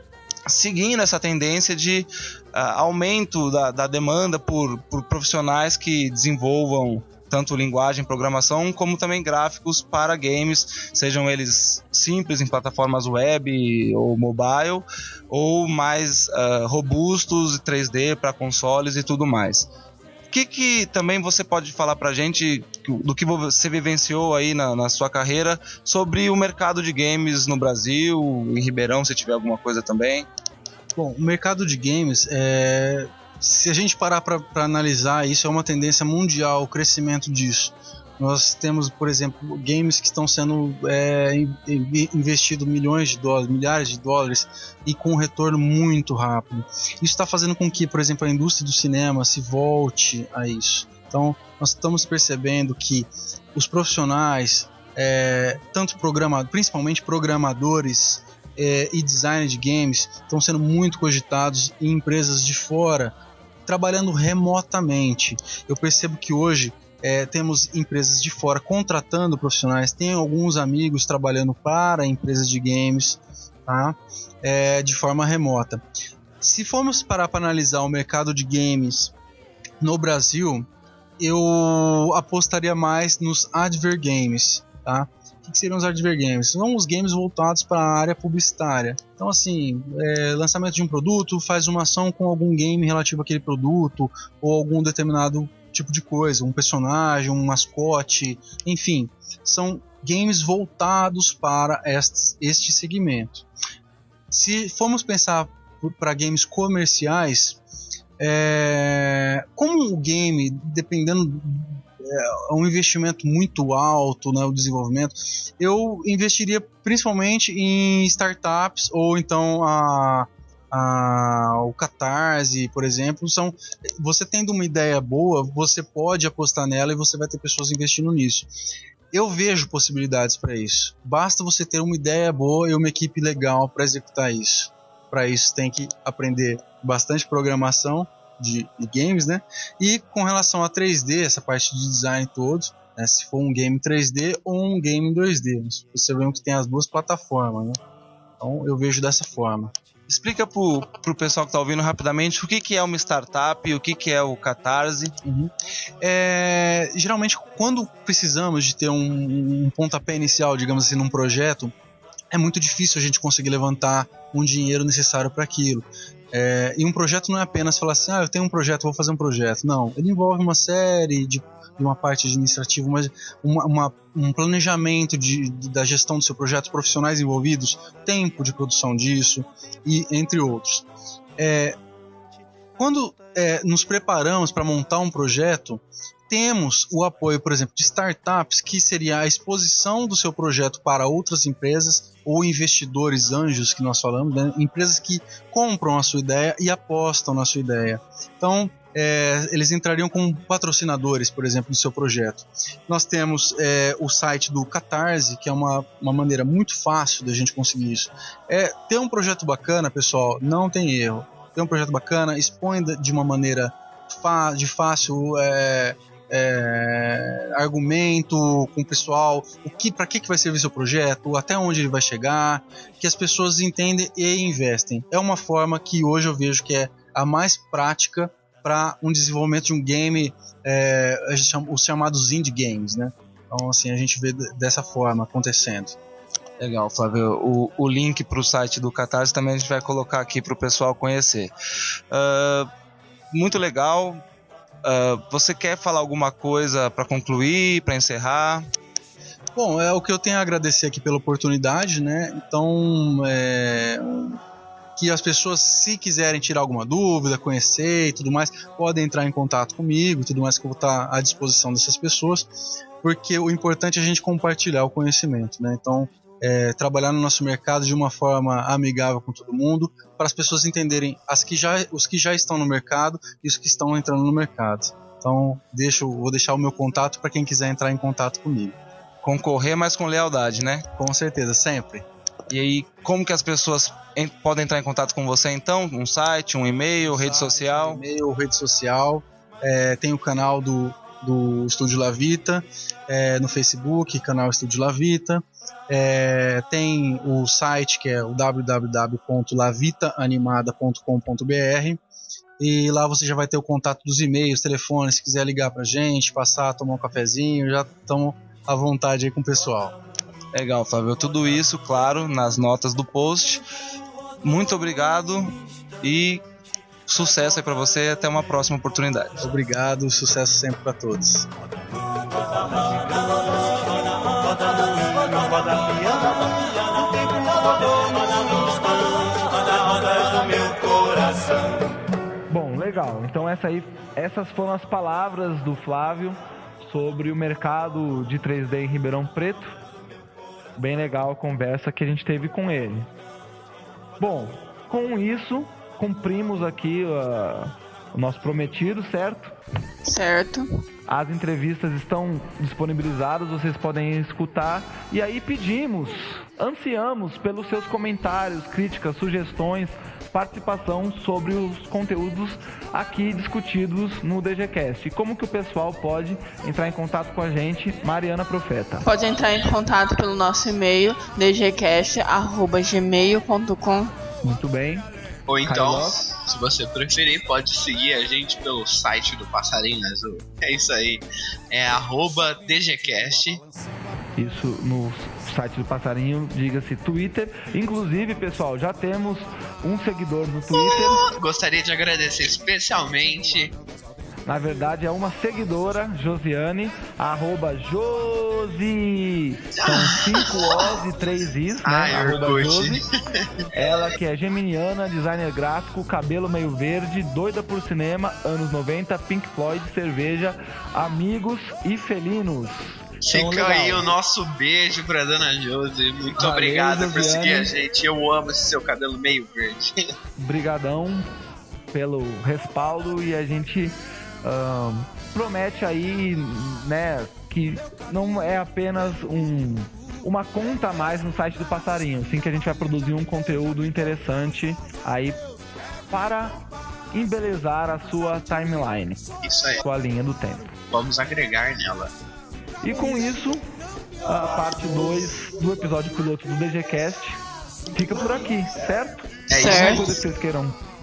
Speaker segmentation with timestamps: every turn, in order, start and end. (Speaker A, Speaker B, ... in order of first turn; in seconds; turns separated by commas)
Speaker A: 0.5-19.7, Speaker A: 20.3-30.3, Speaker B: 30.9-63.1, Speaker B: 63.6-75.8, Speaker B: 76.4-79.1, Speaker B: 79.8-80.7, Speaker B: 81.2-103.5, Speaker B: 104.3-107.6, Speaker B: 108.2-128.5, Speaker B: 129.1-147.8, Speaker B: 148.4-149.7, Speaker A: 150.1-155.1, Speaker B: 155.2-161.7, Speaker B: 162.3-180.8, Speaker B: 181.4-181.8, Speaker B: 182.8-236.0, Speaker A: 236.6-241.5, Speaker A: 242.1-242.7, Speaker A: 243.3-244.2, Speaker A: 244.8-248.6, Speaker B: 249.5-254.4, Speaker B: 255.0-262.5, Speaker B: 263.0-278.8, Speaker A: 279.2-280.8, Speaker B: 281.0-282.1, Speaker A: 282.5-288.0, Speaker B: 287.1-302.0, Speaker B: 302.6-309.9, Speaker A: 310.5-313.6, Speaker A: 314.4-316.4, Speaker A: 317.1-319.4, Speaker B: 319.4-321.5, Speaker C: 332.5-339.8, Speaker C: 340.8-343.1, Speaker C: 344.2-349.5, Speaker D: 350.1-350.7, Speaker C: 351.1-369.1, Speaker D: 369.0-374.1, Speaker C: 374.4-375.1, Speaker E: 375.5-383.6, Speaker C: 375.6-376.2, Speaker C: 384.4-391.2, Speaker E: 390.7-393.7, Speaker C: 394.4-403.0, Speaker E: 399.8-400.7, Speaker E: 401.8-403.6, Speaker C: 403.7-414.1, Speaker E: 413.2-420.1, Speaker C: 416.4-417.7, Speaker C: 420.4-421.2, Speaker C: 421.9-435.4, Speaker C: 436.1-436.6, Speaker C: 437.1-439.2, Speaker E: 439.4-439.8, Speaker C: 439.8-440.7, Speaker E: 440.9-442.1, Speaker C: 442.8-443.6, Speaker C: 444.2-447.4, Speaker C: 447.9-450.8, Speaker E: 449.5-450.2, Speaker D: 449.5-450.1